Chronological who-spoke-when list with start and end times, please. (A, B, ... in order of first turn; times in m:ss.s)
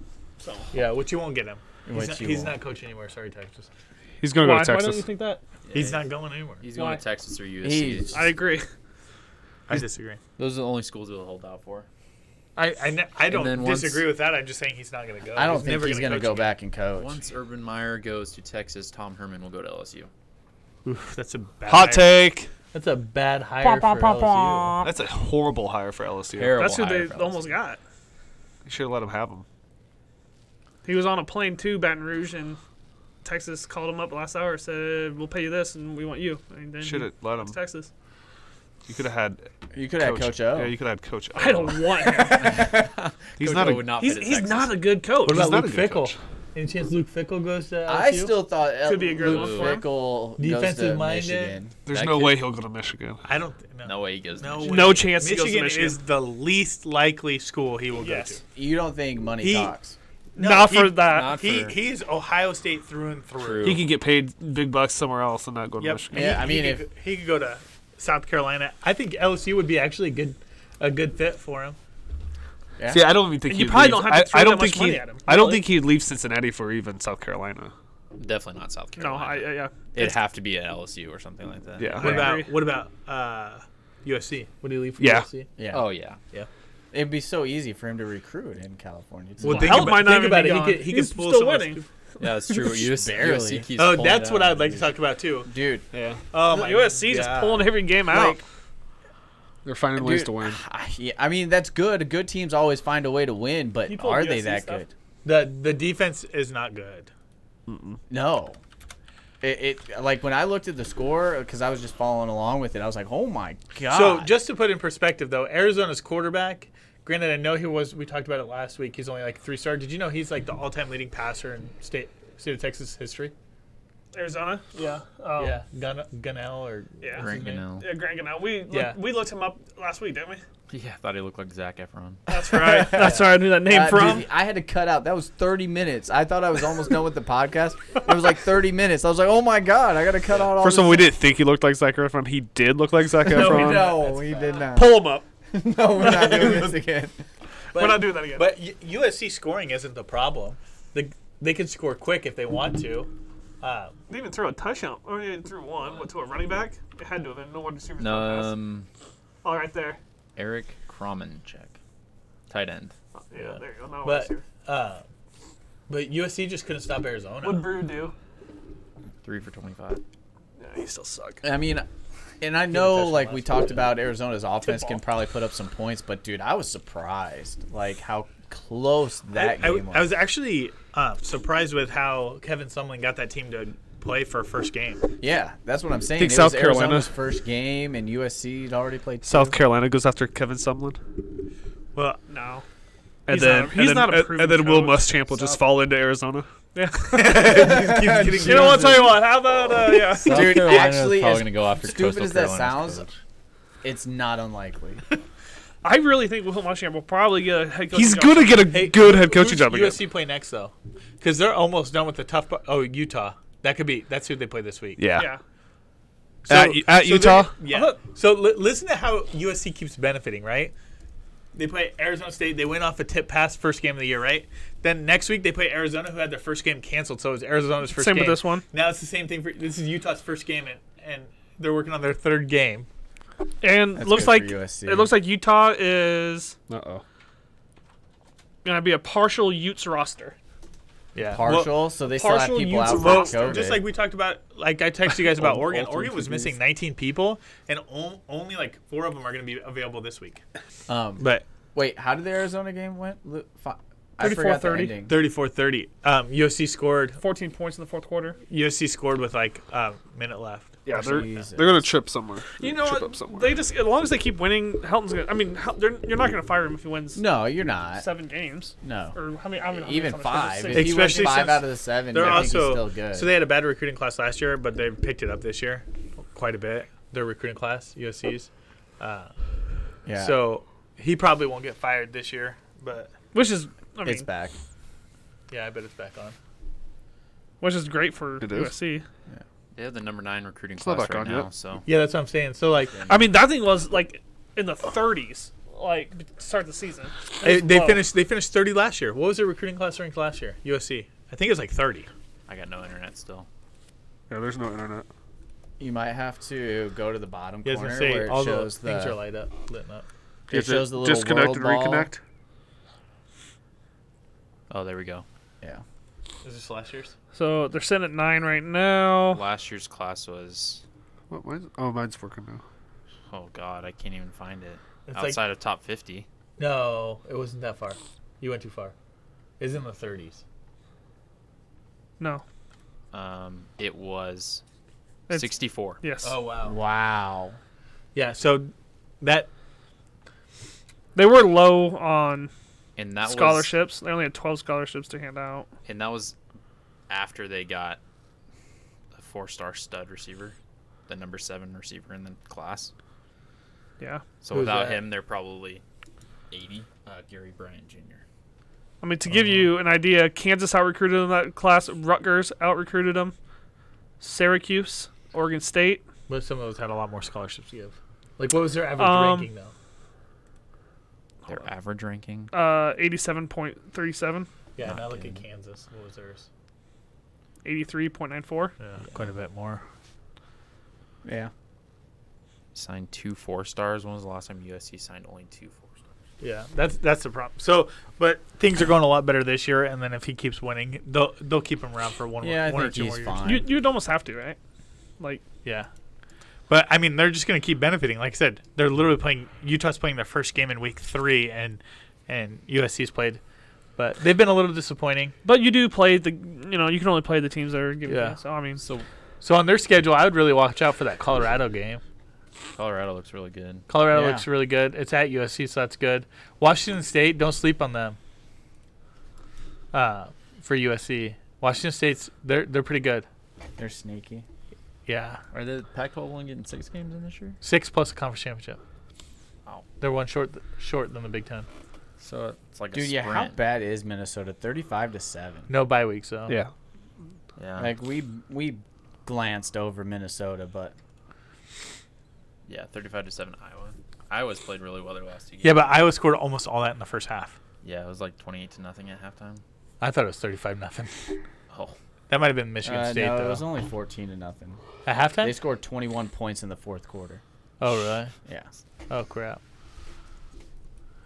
0:00.4-0:00.7 A
0:00.7-0:03.7 B
0:01.9-0:02.6 C
0:04.2-0:05.0 D
0:04.4-0:05.4 A
0:05.7-0:08.2 E
0:05.7-0:06.6 B
0:06.7-0:07.0 A
0:07.6-0:08.3 C
0:08.1-0:08.7 A
0:09.7-0:10.2 B
0:10.4-0:11.9 E
0:12.6-0:16.5 B
0:13.3-0:14.1 E
0:15.4-0:17.2 C
0:16.9-0:20.1 E
0:21.1-0:24.8 B
0:21.7-0:22.5 D
0:23.7-0:24.8 A
0:24.8-0:26.6 D
0:26.3-0:27.6 E
0:26.6-0:27.8 A
0:28.6-0:29.4 D
0:30.8-0:32.6 A
0:33.2-0:37.9 A
0:36.8-0:37.6 D
0:38.9-0:39.5 D
0:39.7-0:40.7 C
0:40.0-0:41.9 D
0:41.3-0:42.6 A
0:42.1-0:42.9 C
0:42.5-0:44.8 E
0:43.4-0:44.0 D
0:44.0-0:45.5 A
0:45.2-0:48.4 B
0:45.3-0:46.2 D
0:47.9-0:51.8 C
0:48.8-0:49.8 A
0:49.2-0:49.8 E
0:50.4-0:51.6 B
0:51.9-0:53.2 D
0:51.9-0:52.4 E
0:53.2-0:58.4 B
0:53.8-0:55.1 E
0:54.7-0:56.0 A
0:58.0-0:58.4 A
0:58.6-1:00.0 C
0:59.4-0:59.7 B
1:00.4-1:01.4 A
1:00.4-1:03.8 B
1:01.1-1:01.8 E
1:03.4-1:03.9 E
1:03.6-1:06.3 D
1:05.8-1:11.8 B
1:06.1-1:06.9 C
1:12.8-1:13.2 C
1:12.9-1:17.7 D
1:13.4-1:15.7 A
1:18.2-1:22.2 E
1:19.0-1:20.2 A
1:21.8-1:22.3 D
1:22.0-1:22.6 A
1:22.0-1:25.5 B
1:25.0-1:25.3 D
1:25.6-1:25.9 C
1:25.7-1:26.2 E
1:26.9-1:30.0 C
1:29.4-1:31.9 B
1:29.4-1:31.8 A
1:32.2-1:34.9 E
1:32.7-1:33.7 C
1:33.8-1:35.5 B
1:35.5-1:35.9 C
1:35.9-1:36.2 D
1:36.3-1:37.8 B
1:36.4-1:38.4 A
1:38.1-1:38.4 C
1:39.6-1:40.6 D
1:40.0-1:44.9 C
1:43.9-1:44.8 A
1:45.2-1:47.1 B
1:47.7-1:48.0 D
1:48.1-1:48.6 C
1:49.4-1:54.3 C
1:53.9-2:03.3 B
2:04.1-2:05.6 A
2:05.4-2:07.6 B
2:07.0-2:10.4 A
2:07.2-2:07.9 E
2:08.7-2:09.0 B
2:10.7-2:12.2 E
2:12.3-2:14.3 A
2:12.4-2:21.1 C
2:13.0-2:14.2 B
2:20.5-2:24.1 D
2:23.3-2:24.7 B
2:23.3-2:27.2 C
2:23.4-2:23.7 A
2:24.8-2:25.2 D
2:26.0-2:26.8 B
2:26.1-2:26.6 A
2:27.7-2:34.0 B
2:27.8-2:28.6 A
2:34.1-2:38.6 A
2:38.0-2:38.9 E
2:39.4-2:40.0 A
2:40.4-2:41.8 E
2:42.5-2:43.0 E
2:43.3-2:44.4 A
2:43.4-2:45.0 B
2:45.9-2:47.7 B
2:47.4-2:48.1 A
2:49.2-2:50.0 E
2:50.6-2:51.5 A
2:51.4-2:51.9 C
2:52.4-3:00.2 C
2:52.7-2:54.0 B
2:54.6-2:55.0 A
2:59.3-3:05.1 B
3:05.2-3:09.6 C
3:06.2-3:07.1 D
3:09.2-3:11.0 D
3:12.0-3:12.2 B
3:12.3-3:12.6 A
3:13.3-3:16.5 D
3:13.3-3:15.2 A
3:16.7-3:17.7 A
3:17.1-3:19.2 B
3:17.5-3:19.1 C
3:18.4-3:20.6 A
3:20.2-3:23.1 C
3:20.2-3:23.1 E
3:23.8-3:25.0 C
3:25.8-3:28.7 A
3:27.9-3:30.0 D
3:28.7-3:35.0 B
3:35.0-3:35.3 D
3:35.2-3:35.4 A
3:36.5-3:37.6 D
3:36.5-3:40.7 B
3:37.7-3:38.0 A
3:41.6-3:52.9 B
3:47.9-3:48.6 A
3:53.6-3:56.6 A
3:54.0-3:55.1 C
3:56.7-3:57.0 D
3:58.6-4:00.4 A
4:01.1-4:01.8 B
4:01.2-4:03.9 C
4:02.1-4:03.7 A
4:02.9-4:10.4 B
4:05.4-4:06.1 D
4:05.4-4:06.5 C
4:10.9-4:15.2 C
4:11.2-4:11.4 B
4:14.2-4:15.0 A
4:15.1-4:17.2 B
4:17.2-4:18.4 A
4:18.5-4:20.8 B
4:20.9-4:23.6 D
4:20.9-4:21.9 C
4:22.6-4:27.2 A
4:27.2-4:28.1 C
4:27.9-4:31.4 A
4:28.8-4:29.2 C
4:29.7-4:33.3 C
4:30.7-4:39.3 B
4:40.0-4:40.4 C
4:40.2-4:43.1 B
4:43.3-4:44.3 A
4:44.0-4:44.5 C
4:45.5-4:46.4 B
4:47.6-4:49.0 A
4:48.4-4:48.8 D
4:49.7-4:51.9 E
4:50.8-4:51.5 D
4:51.9-4:53.0 B
4:53.0-4:53.2 C
4:53.1-4:58.1 A
4:57.4-5:02.1 B
5:02.5-5:03.5 E
5:04.3-5:05.1 D
5:05.8-5:09.2 C
5:07.6-5:10.1 B
5:10.5-5:12.2 D
5:10.5-5:12.1 C
5:14.7-5:15.2 E
5:16.4-5:17.1 B
5:17.3-5:19.4 A
5:19.3-5:20.8 E
5:21.3-5:22.6 D
5:23.3-5:26.3 E
5:25.1-5:25.4 B
5:26.6-5:29.0 B
5:29.6-5:30.4 B
5:33.1-5:34.6 E
5:35.3-5:36.4 A
5:35.3-5:36.0 E
5:36.2-5:36.8 B
5:36.6-5:37.6 C
5:38.2-5:39.5 B
5:41.2-5:42.5 A
5:43.0-5:43.7 E
5:43.2-5:45.7 A
5:45.8-5:46.4 E
5:47.1-5:48.0 E
5:49.1-5:50.6 E
5:51.1-5:52.9 E
5:54.4-5:55.8 E
5:54.5-5:55.1 B
5:56.5-5:58.2 E
5:59.0-6:03.4 A
5:59.3-5:59.7 B
6:04.2-6:06.0 A
6:06.3-6:09.7 B
6:09.0-6:09.5 A
6:11.5-6:12.5 E
6:12.5-6:14.5 A
6:14.8-6:16.5 B
6:14.8-6:15.4 E
6:17.6-6:18.7 A
6:18.8-6:19.8 B
6:21.2-6:21.5 C
6:22.7-6:26.0 E
6:26.4-6:33.4 B
6:32.4-6:33.7 C
6:33.4-6:34.6 A
6:35.6-6:35.9 B
6:36.7-6:43.4 B
6:44.0-6:45.4 B
6:45.4-6:48.8 A
6:48.1-6:48.4 B
6:48.8-6:49.1 E
6:49.4-6:52.0 B
6:52.8-6:53.9 E
6:53.9-6:58.2 B
6:54.1-6:54.5 C
6:59.9-7:03.3 B
7:03.8-7:04.5 C
7:05.1-7:05.4 B
7:05.5-7:07.6 E
7:07.6-7:08.8 B
7:10.0-7:11.7 B
7:12.2-7:13.6 E
7:12.9-7:15.7 C
7:15.7-7:16.6 B
7:17.6-7:17.9 E
7:17.8-7:21.0 C
7:22.7-7:25.9 E
7:25.6-7:27.6 B
7:27.8-7:29.6 E
7:30.0-7:31.4 B
7:31.7-7:32.0 E
7:32.3-7:33.6 B
7:32.8-7:34.8 C
7:35.0-7:35.6 B
7:35.4-7:37.4 C
7:37.8-7:38.3 B
7:39.1-7:39.6 B